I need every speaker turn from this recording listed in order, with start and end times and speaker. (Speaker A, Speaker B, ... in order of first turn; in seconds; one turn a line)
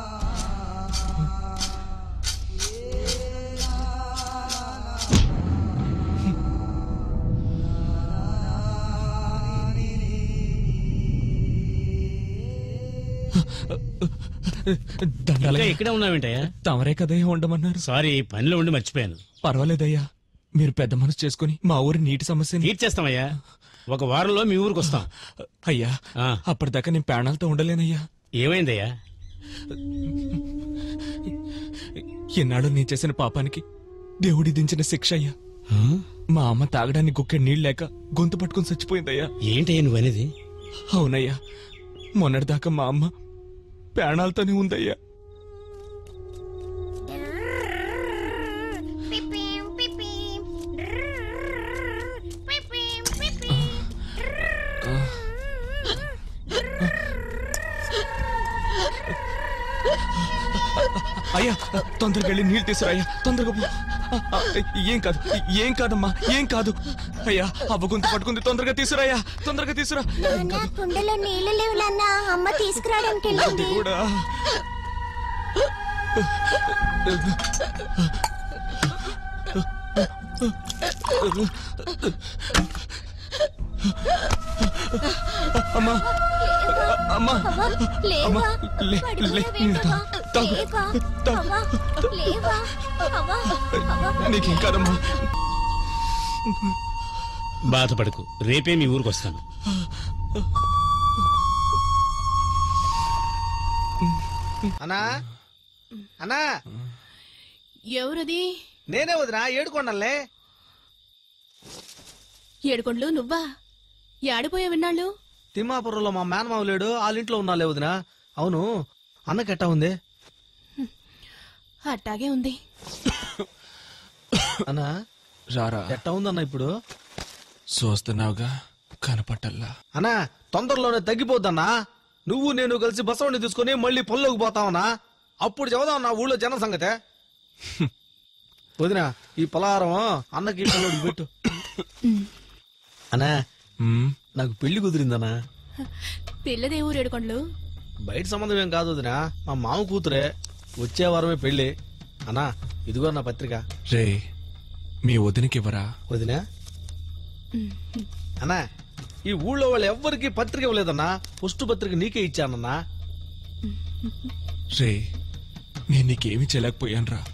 Speaker A: 13.4-15.8
Speaker B: 15.4-16.5
Speaker A: 16.6-17.8
Speaker B: 17.8-19.2
Speaker A: 19.4-20.0
Speaker A: 20.6-22.7
Speaker B: 22.6-23.3
Speaker B: 23.9-25.1
Speaker A: 25.6-25.9
Speaker A: 26.5-28.0
Speaker B: 28.4-28.9
Speaker A: 32.4-33.6
Speaker A: 34.2-35.3
Speaker B: 35.7-36.0
Speaker A: 36.3-39.3
Speaker B: 39.5-40.3
Speaker A: 40.9-41.4
Speaker A: 42.2-43.1
Speaker A: 44.0-45.0
Speaker A: 54.8-55.2
Speaker A: 61.1-70.7
Speaker C: 70.2-73.8
Speaker A: 73.3-74.2
Speaker A: 80.0-80.5
Speaker A: 81.1-82.6
Speaker A: 84.6-86.1
Speaker C: 86.4-94.6
Speaker A: 86.7-92.6
Speaker A: 93.5-95.3
Speaker A: 96.5-96.7
Speaker B: 97.7-99.4
Speaker D: 107.9-108.5
Speaker E: 108.9-110.1
Speaker D: 112.7-113.4
Speaker D: 114.3-115.1
Speaker E: 115.5-118.6
Speaker E: 119.3-119.9
Speaker D: 121.9-122.5
Speaker A: 125.5-126.0
Speaker E: 125.9-126.7
Speaker A: 127.7-128.5
Speaker A: 129.0-129.7
Speaker E: 129.9-131.7
Speaker E: 132.3-134.9
Speaker E: 135.4-136.9
Speaker E: 138.8-141.3
Speaker A: 143.8-144.2
Speaker E: 144.3-145.3
Speaker D: 146.4-147.4
Speaker E: 148.1-150.2
Speaker E: 150.8-151.7
Speaker E: 152.3-153.6
Speaker A: 153.9-154.2
Speaker A: 155.0-155.8
Speaker E: 156.1-156.4
Speaker D: 157.6-158.0
Speaker E: 159.3-162.7
Speaker A: 165.9-167.2